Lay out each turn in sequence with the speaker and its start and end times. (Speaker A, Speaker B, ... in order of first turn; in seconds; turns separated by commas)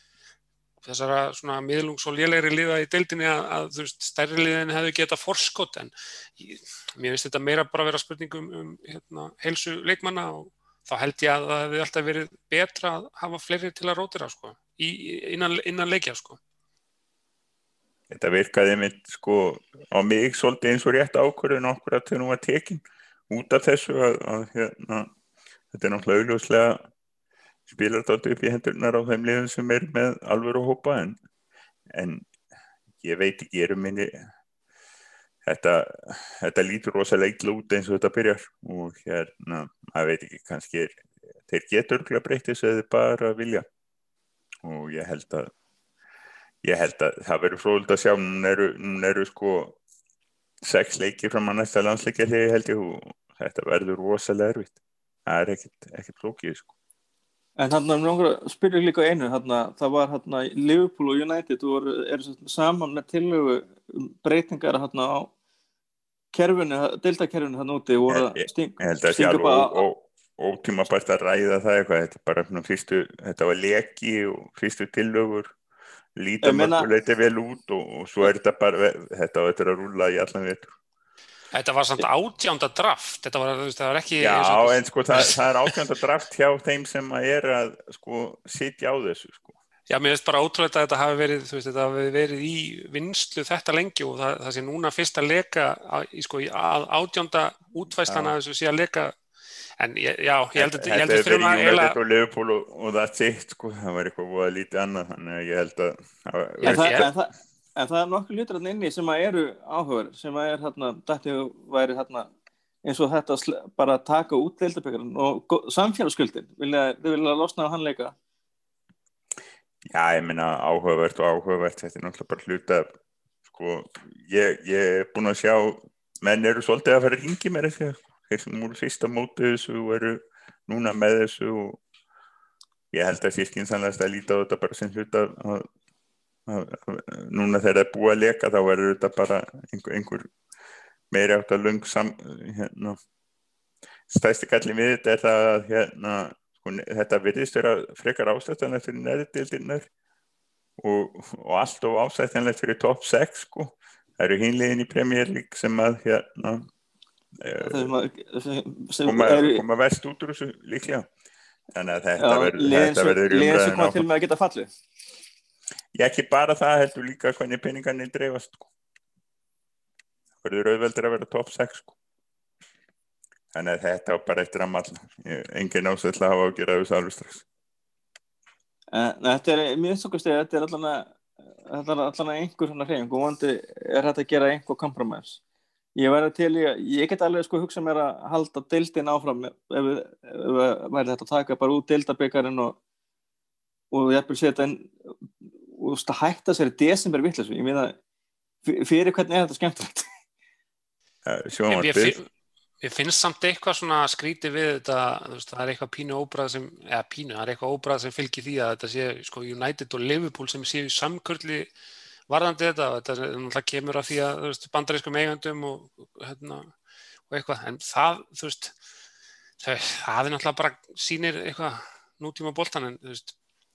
Speaker A: 0.8-16.4, Speaker B: 18.1-25.1, Speaker B: 25.7-26.8, Speaker B: 27.7-31.2, Speaker B: 31.9-32.2, Speaker B: 33.0-34.3, Speaker B: 35.5-43.6, Speaker B: 44.6-45.5, Speaker B: 46.6-49.8, Speaker B: 50.6-56.7, Speaker C: 57.6-65.3, Speaker C: 66.3-69.8, Speaker B: 68.1-75.5, Speaker B: 76.2-80.7, Speaker C: 76.4-76.9, Speaker A: 81.5-85.8, Speaker B: 84.2-89.5, Speaker A: 89.9-99.1, Speaker B: 98.0-98.3, Speaker A: 99.8-102.0, Speaker B: 100.5-107.1, Speaker A: 106.6-107.1, Speaker C: 106.6-112.3, Speaker C: 112.8-118.1, Speaker B: 119.8-122.9, Speaker B: 123.5-131.8, Speaker B: 132.9-135.7, Speaker B: 136.5-140.3, Speaker B: 141.1-143.0, Speaker B: 144.1-149.9, Speaker B: 150.8-156.7, Speaker B: 157.4-157.9, Speaker C: 157.5-159.6, Speaker B: 159.0-161.1, Speaker B: 161.7-164.0, Speaker C: 162.2-164.7, Speaker B: 165.9-168.7, Speaker B: 170.4-171.9, Speaker B: 173.5-177.4, Speaker C: 178.9-181.1, Speaker C: 181.7-185.4, Speaker C: 185.9-192.8, Speaker C: 193.9-194.9, Speaker C: 195.7-197.9, Speaker C: 198.6-200.1, Speaker B: 201.2-202.2, Speaker A: 201.7-202.2, Speaker A: 202.8-211.7, Speaker A: 212.3-216.7, Speaker A: 217.3-218.7, Speaker A: 219.6-223.3